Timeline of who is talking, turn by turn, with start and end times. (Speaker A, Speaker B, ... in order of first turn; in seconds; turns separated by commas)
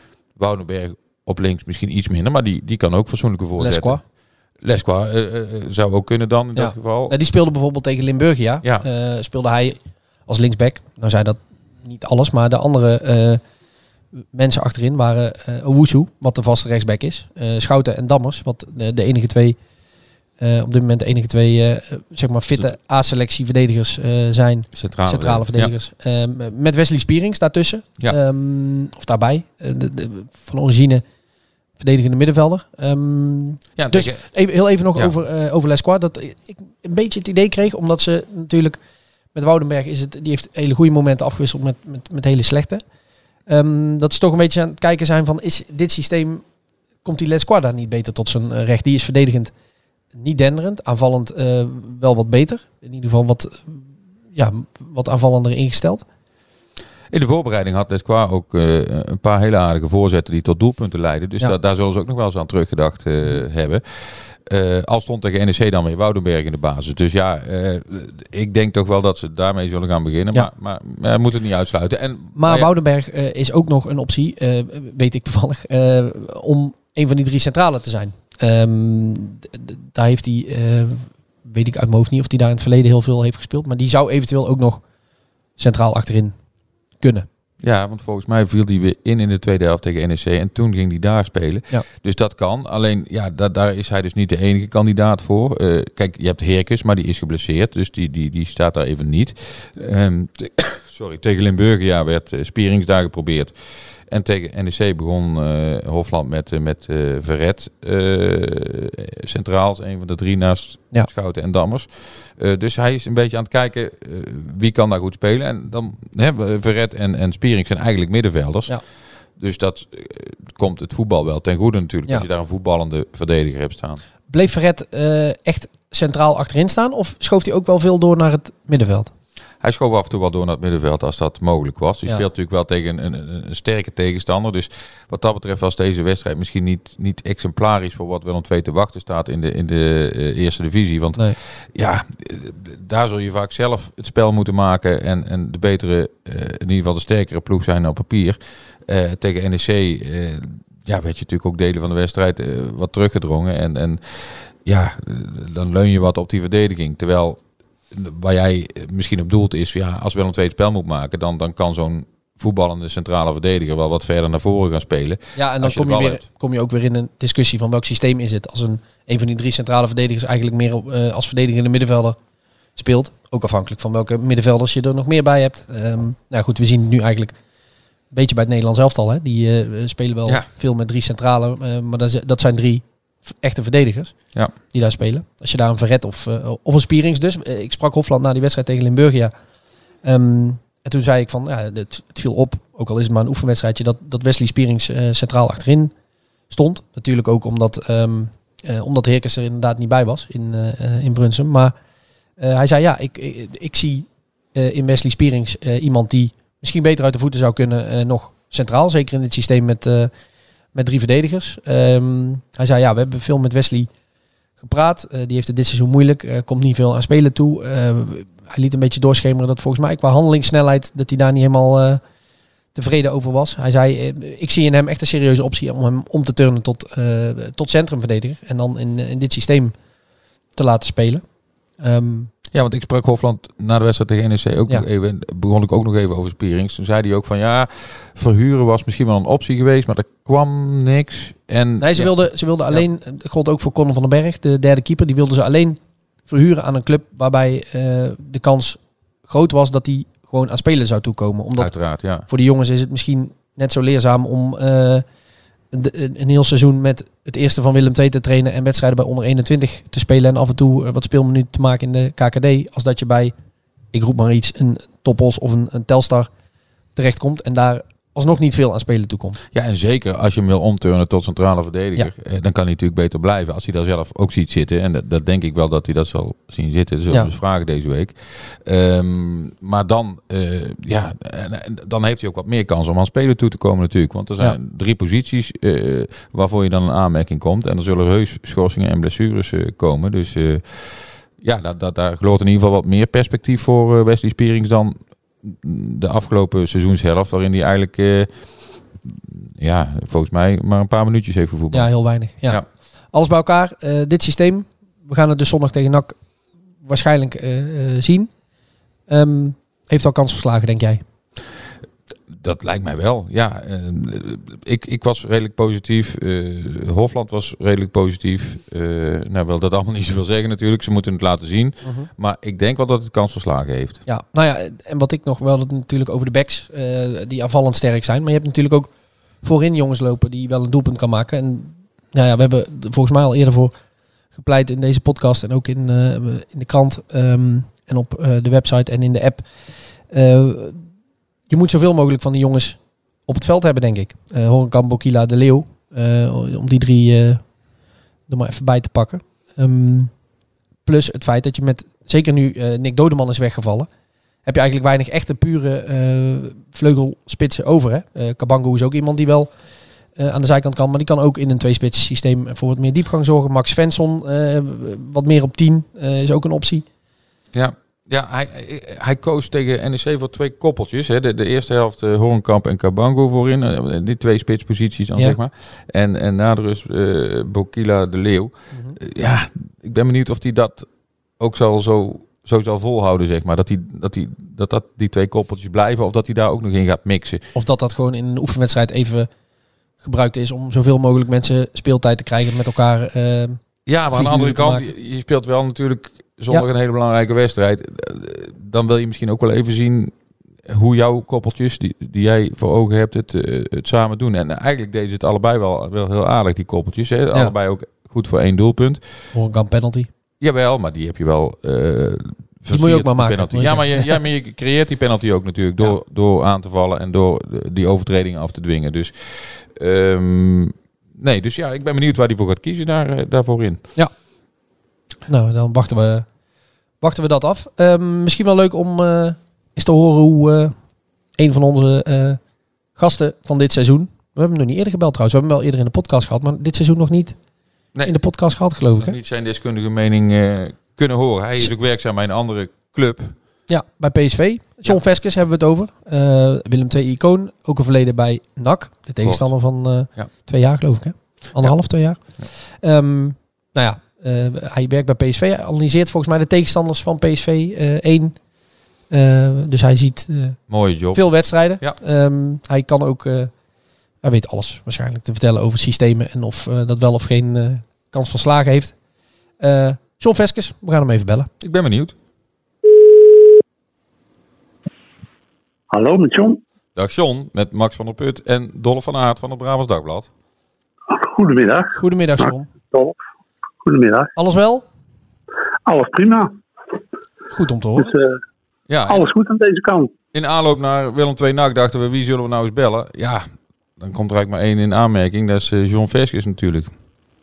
Speaker A: 0.4-4.0, Speaker B: 3.6-4.0, Speaker A: 4.6-7.2, Speaker B: 6.5-13.4, Speaker B: 14.3-19.6, Speaker B: 20.4-31.0, Speaker A: 24.7-25.7, Speaker B: 31.8-38.8, Speaker A: 33.8-34.2, Speaker B: 39.3-42.8, Speaker B: 43.5-46.5, Speaker B: 47.0-49.5, Speaker B: 50.1-56.1, Speaker A: 57.1-72.7, Speaker B: 72.4-84.8, Speaker B: 85.6-86.4, Speaker B: 87.0-87.3, Speaker A: 87.6-118.8, Speaker A: 119.4-124.0, Speaker B: 124.3-129.1, Speaker A: 129.6-166.2, Speaker B: 165.4-172.2, Speaker B: 172.8-177.3, Speaker B: 178.1-184.2, Speaker B: 184.7-189.3, Speaker B: 190.0-195.9, Speaker B: 196.5-201.7, Speaker B: 202.4-210.1, Speaker B: 210.7-213.9, Speaker B: 214.6-222.0, Speaker B: 222.7-229.8, Speaker B: 230.6-231.2, Speaker B: 231.8-232.3, Speaker A: 232.5-242.1, Speaker B: 241.8-251.7, Speaker A: 251.6-252.3, Speaker B: 252.2-255.1, Speaker B: 255.7-263.3, Speaker B: 263.9-266.3, Speaker B: 266.9-269.4, Speaker A: 269.5-298.3, Speaker A: 299.0-301.9, Speaker B: 301.7-306.2, Speaker B: 306.8-308.3, Speaker B: 309.1-311.0, Speaker A: 312.3-324.0, Speaker B: 321.8-322.1, Speaker B: 324.1-328.9, Speaker B: 329.4-333.7, Speaker B: 334.4-339.4, Speaker B: 340.1-340.9, Speaker B: 341.5-347.4, Speaker B: 348.3-350.1, Speaker B: 350.9-353.9, Speaker B: 354.4-359.5, Speaker B: 360.2-366.9, Speaker A: 367.5-380.9, Speaker A: 381.4-387.5, Speaker B: 387.6-389.3, Speaker B: 390.0-394.8, Speaker A: 393.9-400.1, Speaker A: 400.7-409.0, Speaker B: 409.3-410.1, Speaker A: 410.4-423.8, Speaker B: 412.7-414.2, Speaker B: 425.3-426.3, Speaker B: 427.0-430.8, Speaker B: 431.4-432.4, Speaker B: 432.9-437.4, Speaker B: 438.1-439.2, Speaker A: 439.0-443.4, Speaker B: 443.7-458.4, Speaker A: 449.2-449.5, Speaker B: 459.1-460.6, Speaker A: 460.7-461.2, Speaker B: 461.1-463.5, Speaker B: 464.2-468.9, Speaker B: 469.6-471.5, Speaker A: 471.6-472.1, Speaker C: 475.9-476.6, Speaker A: 477.0-480.3, Speaker C: 481.1-483.1, Speaker B: 481.9-482.7, Speaker C: 483.8-484.3, Speaker B: 484.4-484.9, Speaker C: 485.9-486.5, Speaker B: 487.5-488.1, Speaker C: 488.0-488.4, Speaker A: 488.9-489.3, Speaker C: 489.1-490.1, Speaker A: 490.3-493.5, Speaker A: 494.0-496.9